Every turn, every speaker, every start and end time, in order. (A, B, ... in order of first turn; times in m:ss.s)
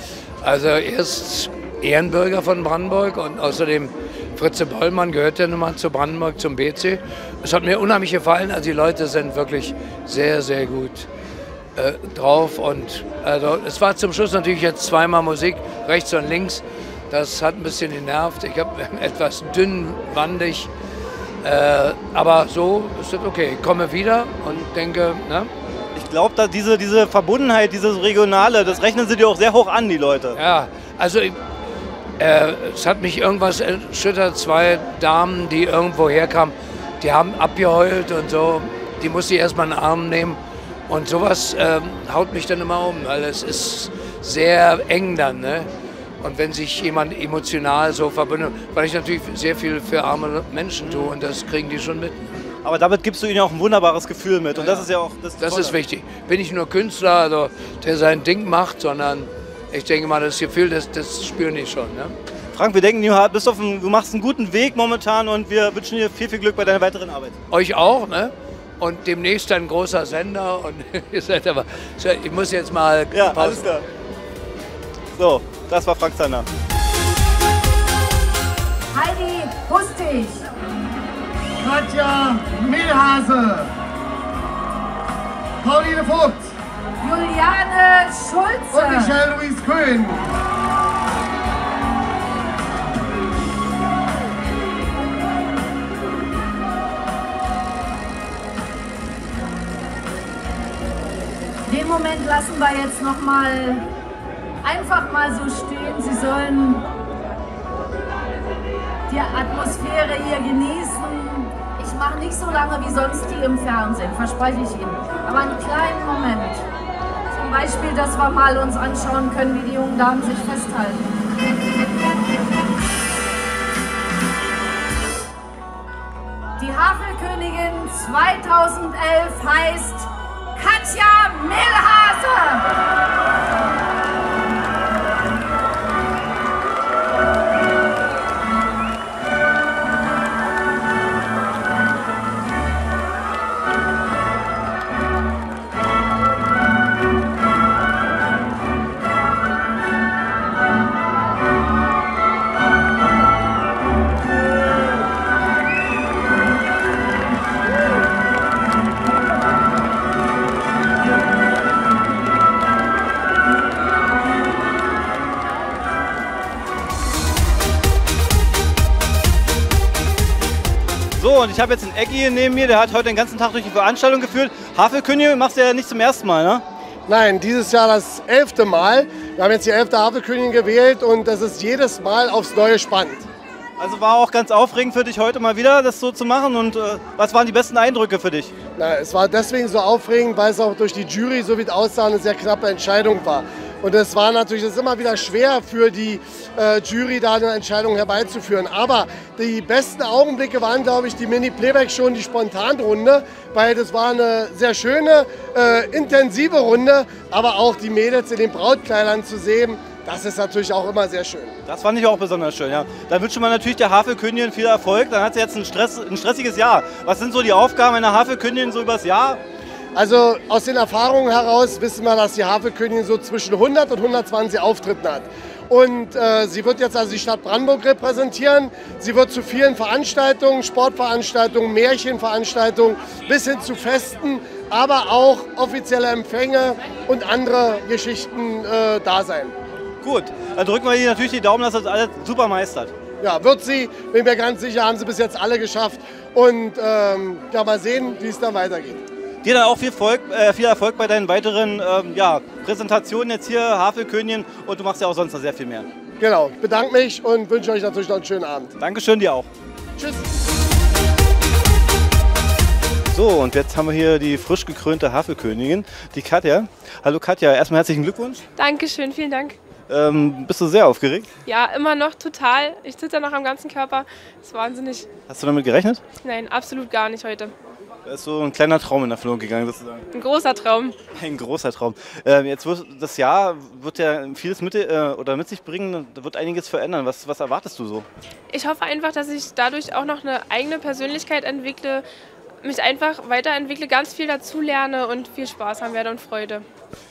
0:00.4-0:11.1 A
0:11.8-0:20.7 A
0:21.4-0:25.5 A
0:26.0-0:30.4 B
0:30.4-0:31.4 A
0:32.2-0:45.7 A
0:46.2-0:52.3 A
0:50.8-0:51.2 B
0:52.6-0:55.8 B
0:54.6-1:02.2 A
1:02.5-1:07.4 B
1:07.5-1:13.8 A
1:13.1-1:13.8 B
1:15.2-1:16.5 B
1:18.9-1:20.5 C
1:21.6-1:23.7 D
1:25.6-1:26.5 D
1:27.0-1:29.2 C
1:28.7-1:30.3 D
1:41.7-1:43.8 C
1:44.6-1:46.8 C
1:49.1-1:56.6 C
1:57.4-2:01.0 C
2:06.6-2:12.6 C
2:51.2-2:56.6 B
2:57.1-3:03.3 D
3:03.8-3:08.6 B
3:08.8-3:31.6 D
3:31.7-3:39.4 B
3:40.0-3:59.6 D
4:00.0-4:02.9 B
4:03.2-4:09.0 D
4:09.4-4:15.9 B
4:16.2-4:18.7 D
4:18.8-4:19.5 B
4:20.0-4:20.2 D
4:23.1-4:28.4 B
4:28.6-4:29.6 E
4:29.9-4:31.3 B
4:31.4-4:35.1 E
4:35.3-4:36.0 B
4:36.2-4:37.5 E
4:38.1-4:40.0 B
4:40.1-4:41.0 E
4:41.1-4:48.1 B
4:48.5-4:52.0 E
4:52.6-4:56.6 E